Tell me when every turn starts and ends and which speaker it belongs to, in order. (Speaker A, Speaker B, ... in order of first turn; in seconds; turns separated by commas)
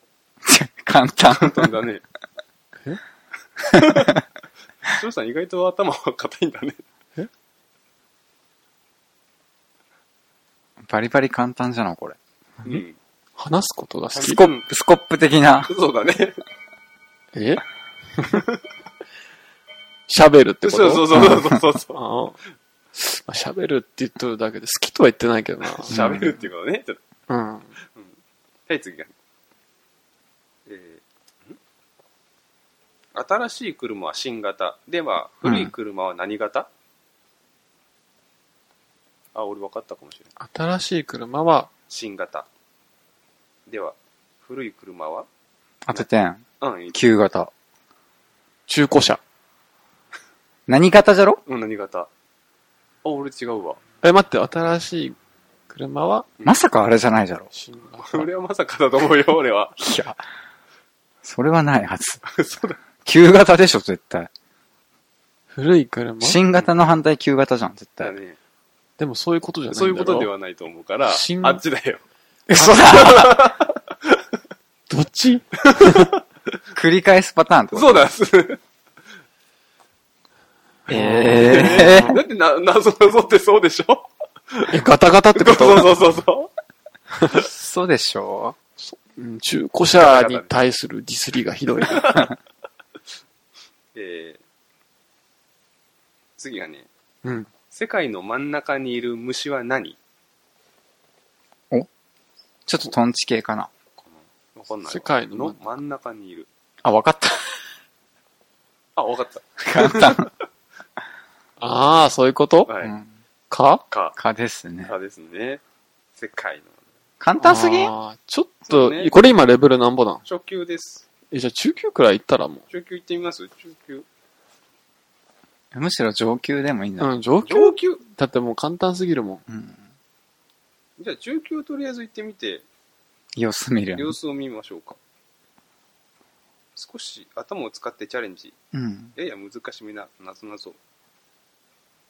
Speaker A: 0.4-1.7, Speaker B: 1.3-2.0, Speaker B: 3.7-4.2, Speaker B: 4.9-6.8, Speaker A: 10.8-12.2, Speaker B: 12.6-12.9, Speaker C: 13.4-14.4, Speaker B: 14.2-14.6, Speaker A: 14.2-15.7, Speaker B: 15.7-16.4, Speaker C: 17.3-17.6, Speaker C: 18.2-18.4, Speaker C: 20.1-22.4, Speaker B: 20.6-22.0, Speaker A: 21.1-21.6, Speaker C: 22.9-25.9, Speaker B: 25.8-27.0, Speaker A: 25.9-26.4, Speaker C: 27.3-27.7, Speaker B: 28.7-29.1, Speaker B: 30.6-31.6, Speaker B: 33.1-36.7, Speaker A: 35.4-35.7, Speaker B: 39.3-40.3, Speaker C: 40.4-41.7, Speaker B: 41.9-42.5, Speaker B: 43.7-45.3, Speaker A: 45.8-47.5, Speaker B: 46.6-46.9, Speaker C: 48.7-49.2, Speaker A: 50.7-51.4, Speaker B: 51.5-52.1, Speaker B: 53.0-53.8, Speaker C: 54.0-55.2, Speaker C: 55.7-56.3, Speaker A: 56.4-57.5, Speaker C: 57.5-58.3, Speaker B: 58.0-59.8, Speaker A: 59.8-60.2, Speaker A: 61.2-62.2, Speaker B: 62.2-62.8, Speaker A: 63.0-64.3, Speaker C: 65.5-66.6, Speaker A: 66.2-68.2, Speaker B: 68.0-68.3, Speaker C: 69.0-70.3, Speaker B: 69.7-72.0, Speaker C: 71.0-71.6, Speaker A: 72.5-73.3, Speaker C: 72.6-73.2, Speaker B: 72.6-74.2, Speaker C: 74.9-76.1, Speaker B: 75.7-76.2, Speaker A: 76.7-78.1, Speaker B: 77.7-78.6, Speaker A: 80.9-82.2, Speaker C: 80.9-82.2, Speaker B: 81.2-84.8, Speaker C: 84.7-86.0, Speaker B: 85.3-86.5, Speaker A: 87.3-88.6, Speaker C: 88.8-92.2, Speaker B: 90.0-90.5, Speaker B: 91.8-92.3, Speaker B: 93.9-94.4, Speaker B: 96.4-96.9, Speaker C: 97.2-97.5, Speaker B: 97.7-100.0, Speaker A: 102.7-103.7, Speaker B: 104.0-106.5, Speaker C: 104.8-105.6, Speaker A: 106.8-107.6, Speaker B: 109.0-110.3, Speaker A: 109.6-110.3, Speaker C: 111.6-112.7, Speaker B: 112.7-112.9, Speaker A: 112.8-113.1, Speaker C: 113.5-113.8, Speaker B: 113.9-114.2, Speaker A: 114.2-114.9, Speaker B: 114.8-115.6, Speaker B: 116.2-116.8, Speaker A: 117.2-117.9, Speaker C: 117.4-120.2, Speaker B: 118.7-119.2, Speaker B: 120.2-121.0, Speaker C: 121.3-122.6, Speaker B: 122.7-124.0, Speaker A: 125.7-127.1, Speaker C: 127.0-129.4, Speaker B: 127.4-128.0, Speaker A: 129.5-129.8, Speaker B: 131.0-132.7, Speaker A: 133.4-134.2, Speaker B: 133.9-135.0, Speaker B: 136.8-138.6, Speaker A: 138.7-139.1, Speaker B: 139.1-140.8